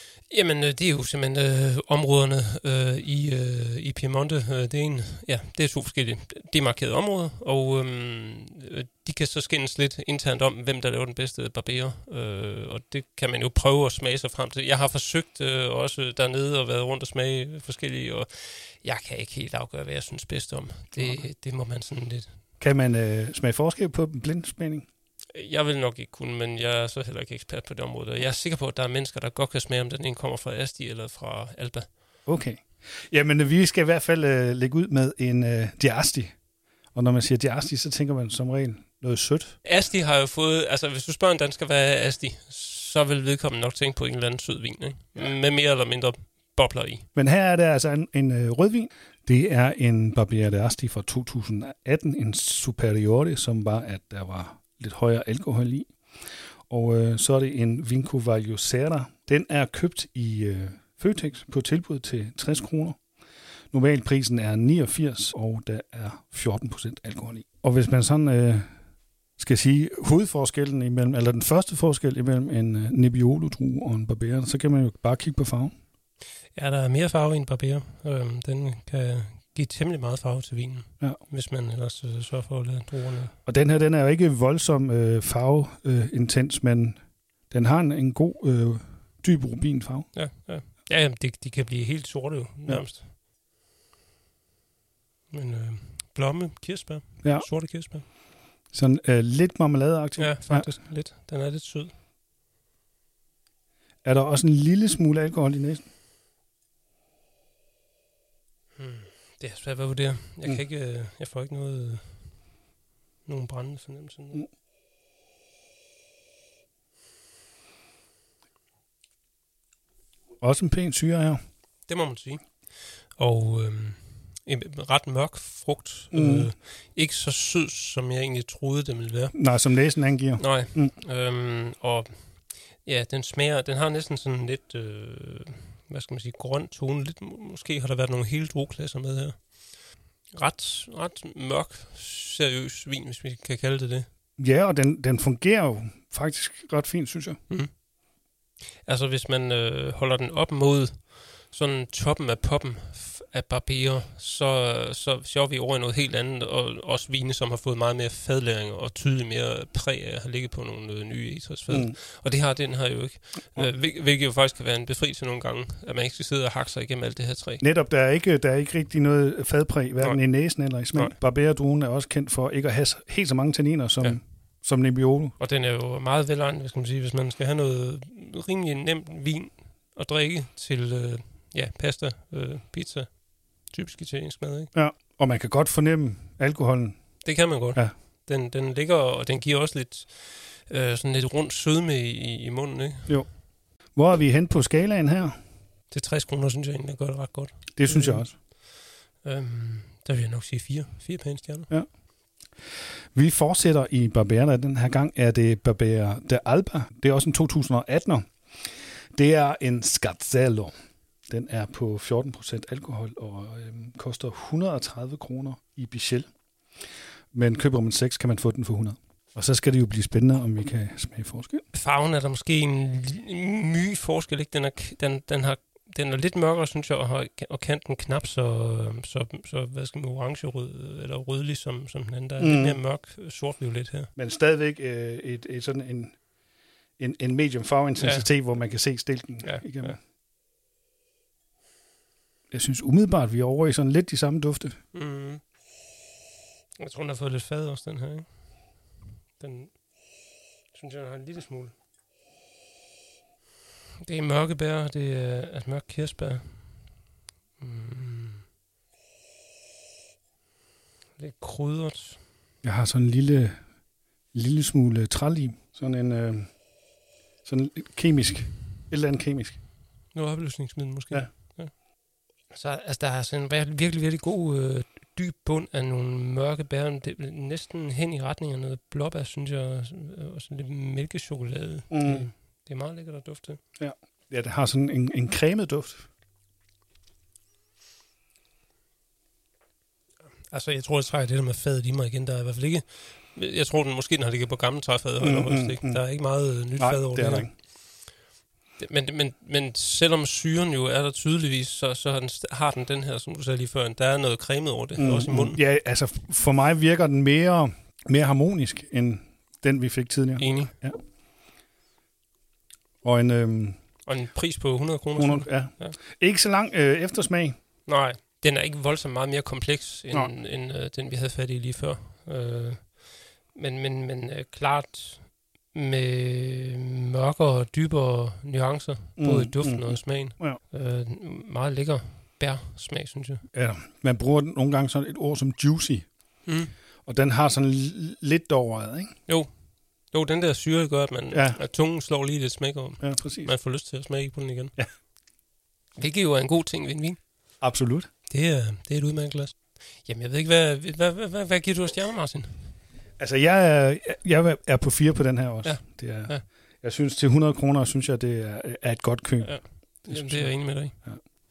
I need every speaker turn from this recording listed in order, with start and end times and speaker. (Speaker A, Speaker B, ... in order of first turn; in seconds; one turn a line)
Speaker A: 0.3-22.4
Speaker B: 20.9-21.2
Speaker B: 22.6-24.9
Speaker A: 25.3-31.9
Speaker B: 32.2-36.4
Speaker B: 36.9-39.6
Speaker A: 39.6-47.1
Speaker B: 47.1-55.9
Speaker B: 56.7-63.0
Speaker B: 63.7-68.7
Speaker B: 69.4-75.8
Speaker A: 76.5-83.3
Speaker B: 83.4-90.1
Speaker A: 90.1-93.1
Speaker A: 95.3-98.1
Speaker B: 97.2-97.5
Speaker B: 98.7-100.8
Speaker A: 100.2-101.9
Speaker B: 104.0-105.9
Speaker A: 108.8-112.5
Speaker A: 113.2-114.4
Speaker B: 120.4-121.4
Speaker A: 121.9-129.4
Speaker B: 126.1-126.5
Speaker B: 129.3-130.9
Speaker A: 130.4-144.1
Speaker B: 144.4-147.4
Speaker A: 147.5-147.8
Speaker A: 148.8-167.6
Speaker B: 161.7-162.0
Speaker B: 167.6-175.3
Speaker A: 170.0-171.2
Speaker A: 175.4-184.7
Speaker B: 184.7-187.2
Speaker A: 187.2-193.2
Speaker B: 193.1-195.4
Speaker A: 195.9-201.7
Speaker B: 197.8-198.3
Speaker B: 203.1-210.7
Speaker B: 211.3-216.3
Speaker B: 217.3-221.6
Speaker A: 221.7-234.1
Speaker B: 232.4-232.8
Speaker B: 234.2-236.2
Speaker B: 237.0-240.0
Speaker A: 238.0-238.3
Speaker A: 239.4-240.0
Speaker B: 242.5-244.8
Speaker A: 244.9-245.5
Speaker A: 246.8-251.7
Speaker A: 254.0-257.1
Speaker A: 257.6-258.4
Speaker A: 261.2-262.2
Speaker B: 262.6-263.6
Speaker B: 264.3-266.6
Speaker B: 267.4-269.6
Speaker A: 270.1-271.8
Speaker A: 272.5-283.6
Speaker B: 281.9-282.3
Speaker B: 283.8-286.1
Speaker A: 290.4-297.7
Speaker B: 295.2-296.0
Speaker B: 296.5-297.5
Speaker A: 298.8-305.6
Speaker B: 305.0-311.0
Speaker A: 310.4-310.7
Speaker B: 313.0-313.8
Speaker A: 314.0-316.0
Speaker B: 315.1-317.6
Speaker A: 317.9-333.4
Speaker B: 329.2-330.6
Speaker B: 333.5-336.4
Speaker A: 336.4-336.7
Speaker B: 337.0-339.1
Speaker A: 339.3-344.7
Speaker B: 341.3-341.6
Speaker B: 343.0-343.5
Speaker A: 345.9-347.3
Speaker B: 347.6-348.1
Speaker A: 348.3-352.8
Speaker B: 353.2-361.2
Speaker A: 355.6-356.4
Speaker A: 359.4-361.1